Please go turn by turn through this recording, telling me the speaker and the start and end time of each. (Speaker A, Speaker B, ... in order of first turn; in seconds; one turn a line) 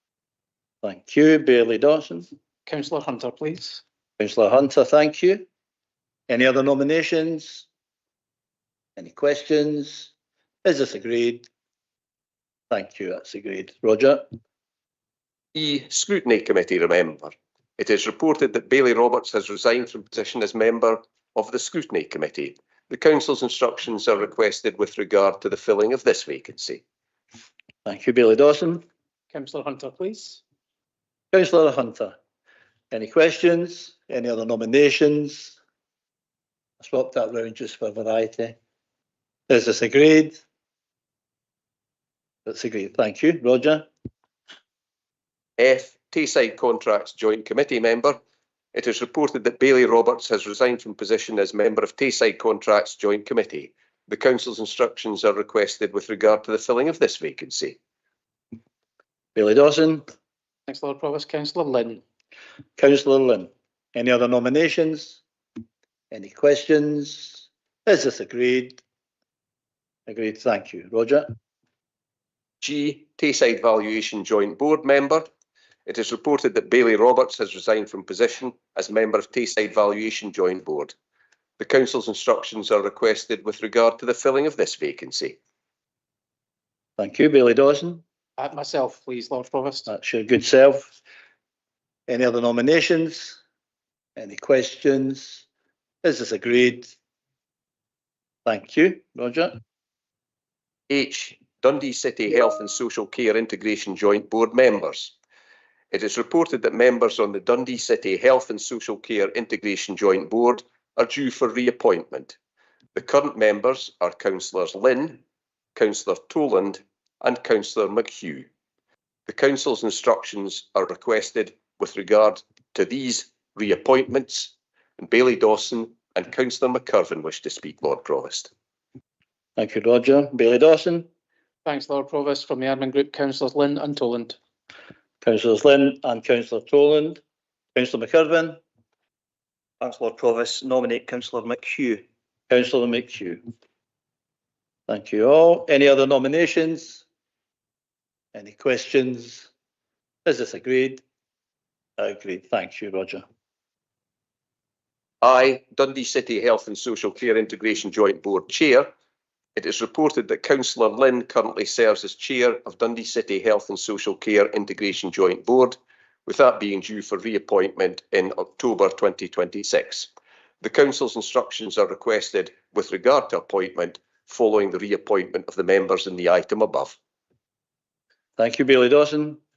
Speaker A: 0.8-2.3
Speaker B: 2.7-3.8
Speaker A: 4.2-5.5
Speaker A: 6.3-7.7
Speaker A: 9.0-10.1
Speaker A: 10.6-11.5
Speaker A: 12.7-14.2
Speaker C: 15.5-26.8
Speaker A: 27.8-28.8
Speaker B: 29.3-30.4
Speaker A: 31.3-32.1
Speaker A: 32.9-35.6
Speaker A: 36.8-38.6
Speaker A: 39.5-40.4
Speaker A: 42.5-43.9
Speaker C: 45.6-48.2
Speaker C: 48.7-57.8
Speaker A: 59.3-60.0
Speaker B: 60.7-62.0
Speaker A: 62.8-65.2
Speaker A: 66.1-68.8
Speaker A: 70.1-71.3
Speaker C: 72.6-75.3
Speaker C: 75.8-80.9
Speaker C: 81.6-85.4
Speaker A: 87.0-88.0
Speaker B: 88.4-89.9
Speaker A: 89.9-90.9
Speaker A: 92.1-93.4
Speaker A: 94.2-95.4
Speaker A: 96.0-96.9
Speaker A: 98.4-99.6
Speaker C: 100.9-105.1
Speaker C: 105.9-112.3
Speaker C: 112.9-115.2
Speaker C: 115.7-118.5
Speaker C: 119.3-128.5
Speaker A: 129.6-131.1
Speaker B: 131.7-134.4
Speaker A: 135.2-137.2
Speaker A: 137.7-138.6
Speaker D: 139.8-142.0
Speaker A: 142.5-143.4
Speaker A: 144.9-147.0
Speaker A: 148.3-149.5
Speaker A: 150.2-151.0
Speaker A: 152.0-153.2
Speaker C: 155.2-158.9
Speaker C: 159.6-170.1
Speaker C: 170.6-177.0
Speaker A: 178.4-179.4